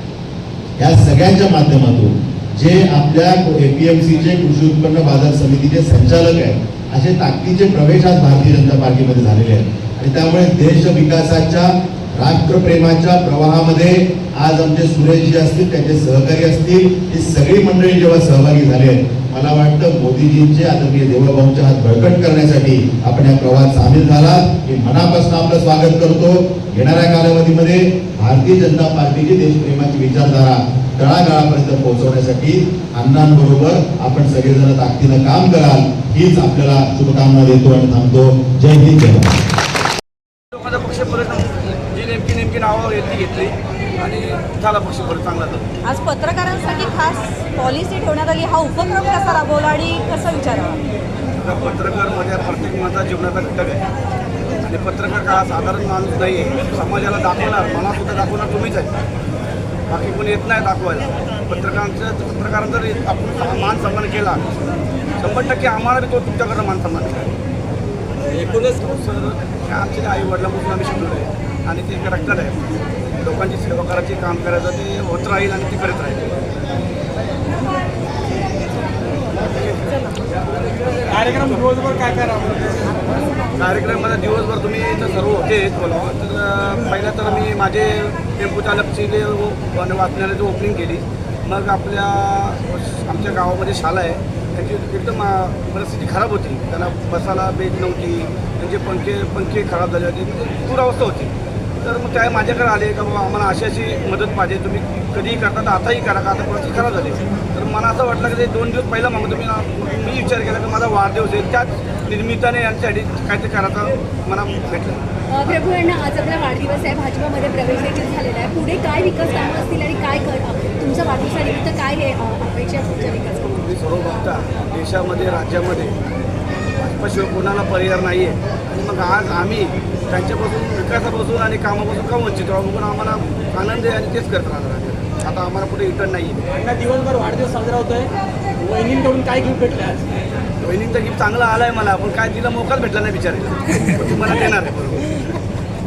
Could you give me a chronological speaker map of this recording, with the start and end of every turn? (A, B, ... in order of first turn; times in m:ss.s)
0:00.8-0:39.4 A
0:40.5-0:45.7 B
0:45.8-0:50.8 C
0:51.4-0:53.8 B
0:54.6-0:59.0 B
0:59.9-1:04.4 B
1:05.2-1:07.3 B
1:08.3-1:12.6 B
1:13.2-1:16.4 B
1:19.4-1:19.8 B
1:21.2-1:21.5 B
1:21.4-1:22.8 D
1:23.6-1:55.0 B
1:55.3-2:03.7 E
2:03.7-2:06.0 B
2:06.8-2:16.5 B
2:16.8-2:20.0 D
2:20.6-2:25.1 B